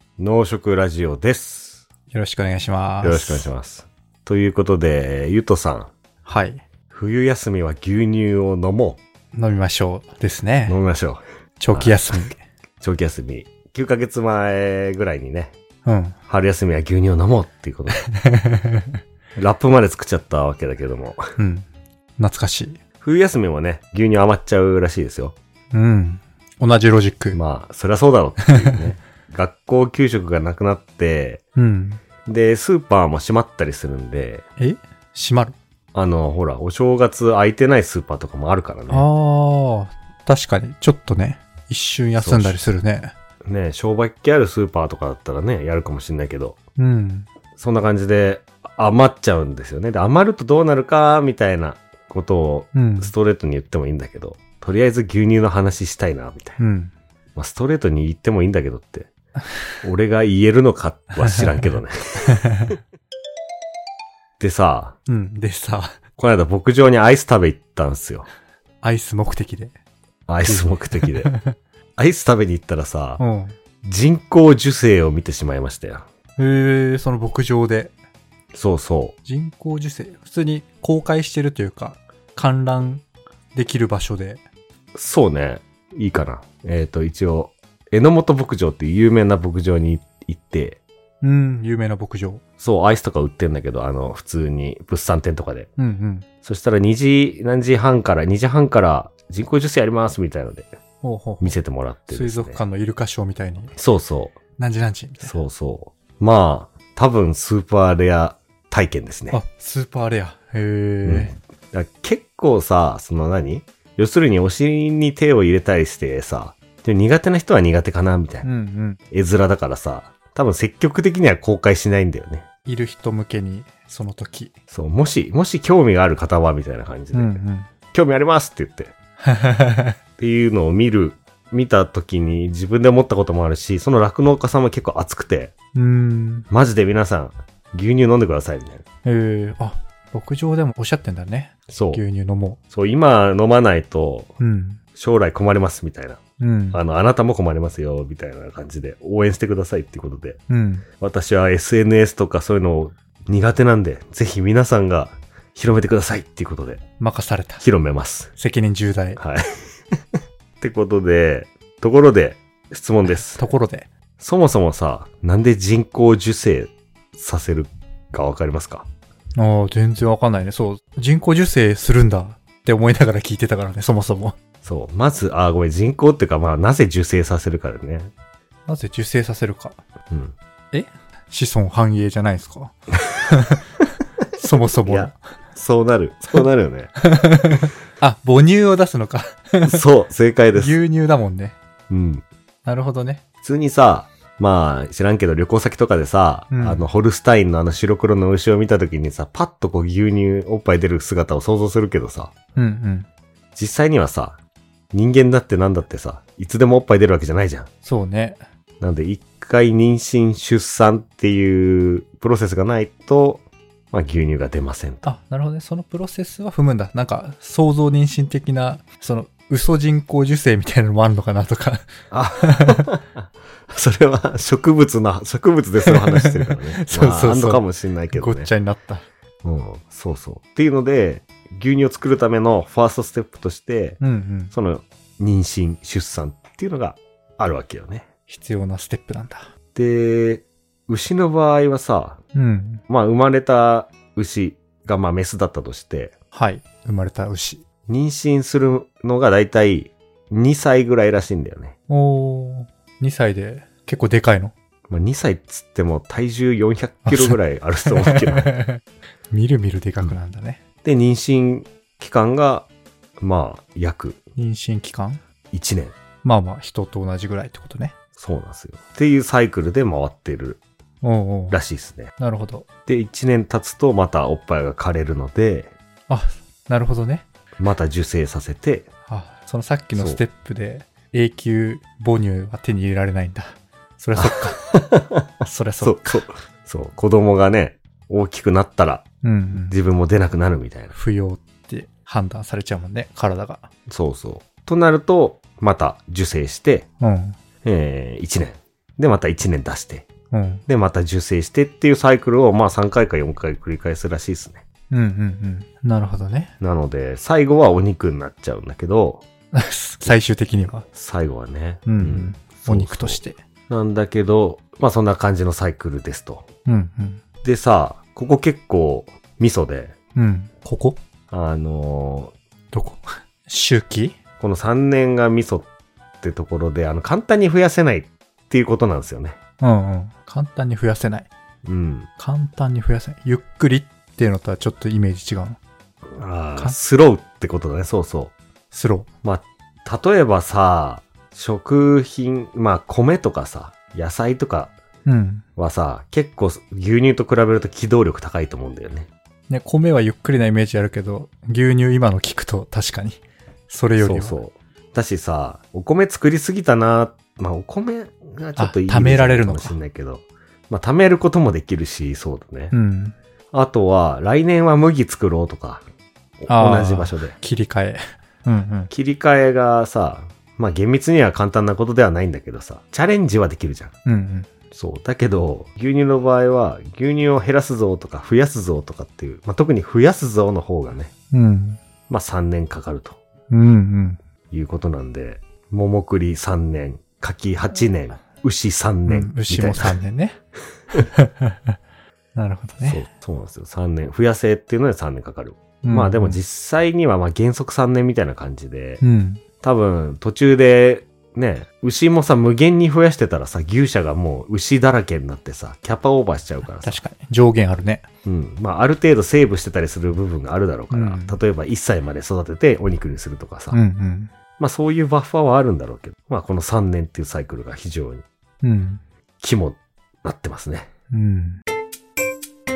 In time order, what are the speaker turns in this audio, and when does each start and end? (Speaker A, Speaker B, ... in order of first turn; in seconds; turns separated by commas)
Speaker A: 0.2-1.8, Speaker B: 2.1-3.5, Speaker A: 3.0-5.9, Speaker B: 6.2-6.6, Speaker A: 6.9-9.0, Speaker B: 9.3-10.8, Speaker A: 10.7-15.5, Speaker B: 11.6-12.4, Speaker B: 15.8-16.2, Speaker A: 16.3-18.0, Speaker B: 18.1-18.8, Speaker A: 19.3-21.3, Speaker B: 21.4-21.7, Speaker B: 22.2-22.8, Speaker A: 23.0-25.4, Speaker B: 25.7-27.4, Speaker A: 27.3-31.4, Speaker B: 31.6-32.0, Speaker A: 32.2-34.5, Speaker B: 34.6-35.5, Speaker A: 35.9-39.1, Speaker B: 38.9-43.1, Speaker A: 42.2-42.7, Speaker A: 43.4-46.6, Speaker B: 46.8-47.3, Speaker A: 47.5-56.6, Speaker B: 52.7-53.1, Speaker B: 56.6-56.9, Speaker A: 57.4-59.1, Speaker A: 59.8-62.4, Speaker B: 61.2-61.5, Speaker B: 62.3-62.7, Speaker A: 64.4-65.0, Speaker B: 65.1-66.0, Speaker A: 66.2-68.3, Speaker B: 68.8-69.7, Speaker A: 70.3-71.3, Speaker B: 70.4-71.5, Speaker A: 72.0-73.2, Speaker B: 73.2-73.5, Speaker A: 73.8-76.0, Speaker B: 76.4-77.9, Speaker A: 78.5-79.2, Speaker B: 79.2-84.4, Speaker A: 84.9-90.8, Speaker B: 91.2-92.4, Speaker A: 92.6-95.7, Speaker B: 95.8-96.3, Speaker A: 96.4-100.7, Speaker B: 101.0-101.6, Speaker A: 101.4-102.6, Speaker B: 102.1-103.7, Speaker A: 103.8-104.4, Speaker B: 104.6-105.4, Speaker A: 105.2-109.4, Speaker B: 109.3-111.3, Speaker A: 111.0-118.5, Speaker B: 118.4-119.0, Speaker A: 119.1-122.5, Speaker B: 122.7-124.5, Speaker A: 124.7-128.9, Speaker B: 127.1-127.7, Speaker B: 129.2-130.0, Speaker A: 130.2-135.5, Speaker B: 135.7-136.5, Speaker A: 136.5-138.8, Speaker B: 139.0-142.6, Speaker A: 141.7-142.0, Speaker A: 142.7-144.4, Speaker B: 144.4-144.8, Speaker A: 144.9-146.2, Speaker B: 146.4-146.8, Speaker A: 146.7-150.4, Speaker B: 150.5-150.8, Speaker A: 151.0-156.8, Speaker B: 157.0-157.6, Speaker A: 157.6-158.3, Speaker B: 158.3-159.2, Speaker A: 159.2-160.0, Speaker A: 160.6-163.4, Speaker B: 163.1-163.9, Speaker A: 164.2-168.9, Speaker B: 169.4-174.3, Speaker A: 174.6-178.1, Speaker B: 178.7-179.8, Speaker A: 180.1-180.3, Speaker B: 180.7-183.7, Speaker B: 184.4-185.2, Speaker A: 184.8-186.9, Speaker B: 187.0-189.8, Speaker A: 189.6-190.8, Speaker B: 190.5-191.6, Speaker A: 191.9-192.2, Speaker B: 192.6-193.2, Speaker A: 193.4-202.3, Speaker B: 196.5-196.8, Speaker B: 202.6-203.1, Speaker A: 203.5-204.4, Speaker A: 204.9-207.7, Speaker B: 207.8-208.4, Speaker A: 208.8-215.1, Speaker B: 215.0-221.9, Speaker A: 222.1-228.5, Speaker B: 222.4-222.8, Speaker B: 225.8-229.1, Speaker A: 229.4-238.1, Speaker B: 234.0-234.5, Speaker B: 238.3-239.5, Speaker A: 239.7-242.2, Speaker B: 242.3-242.8, Speaker A: 242.9-246.1, Speaker B: 246.3-247.6, Speaker A: 247.9-251.7, Speaker B: 251.9-254.5, Speaker A: 254.9-258.5, Speaker B: 257.0-258.8, Speaker B: 259.3-260.6, Speaker A: 260.8-262.7, Speaker A: 263.2-264.2, Speaker B: 264.4-265.2, Speaker A: 265.5-265.9, Speaker B: 266.2-267.9, Speaker A: 268.2-270.6, Speaker B: 271.0-271.6, Speaker A: 271.5-272.1, Speaker B: 272.2-272.6, Speaker A: 272.9-275.7, Speaker B: 276.1-277.2, Speaker A: 277.6-278.9, Speaker B: 279.1-284.6, Speaker A: 279.9-280.2, Speaker A: 284.2-290.9, Speaker B: 285.4-286.2, Speaker B: 289.2-289.8, Speaker B: 290.9-293.7, Speaker A: 293.9-296.9, Speaker B: 297.0-297.4, Speaker A: 297.6-300.1, Speaker B: 300.3-300.6, Speaker A: 300.7-304.6, Speaker B: 304.9-306.5, Speaker A: 306.6-309.2, Speaker B: 309.5-310.9, Speaker A: 310.9-316.5, Speaker B: 311.9-313.4, Speaker B: 316.6-317.2, Speaker A: 317.4-319.9, Speaker B: 320.1-321.0, Speaker A: 321.3-322.3, Speaker B: 322.7-324.2, Speaker A: 324.4-325.7, Speaker A: 326.2-329.4, Speaker B: 329.6-331.3, Speaker A: 331.6-332.1, Speaker B: 332.2-335.6, Speaker A: 336.1-338.3, Speaker B: 338.7-339.1, Speaker A: 339.2-344.7, Speaker B: 345.1-345.4, Speaker A: 345.6-349.1, Speaker B: 349.5-354.4, Speaker A: 354.0-362.7, Speaker B: 358.6-359.8, Speaker B: 362.7-363.1, Speaker A: 363.5-365.8, Speaker A: 366.4-367.4, Speaker B: 366.5-368.9, Speaker A: 368.9-373.9, Speaker B: 374.0-374.5, Speaker A: 374.7-381.1, Speaker B: 381.3-381.8, Speaker A: 382.1-383.2, Speaker B: 383.5-384.2, Speaker A: 384.5-389.9, Speaker B: 389.1-390.4, Speaker B: 390.9-391.7, Speaker B: 392.3-393.0, Speaker A: 392.8-399.0, Speaker B: 395.8-396.4, Speaker B: 399.0-399.4, Speaker A: 399.6-407.0, Speaker B: 406.6-408.0, Speaker A: 408.2-413.8, Speaker B: 410.9-411.4, Speaker B: 413.7-414.3, Speaker A: 414.6-418.2, Speaker B: 418.6-419.0, Speaker A: 419.4-420.9, Speaker B: 421.1-421.6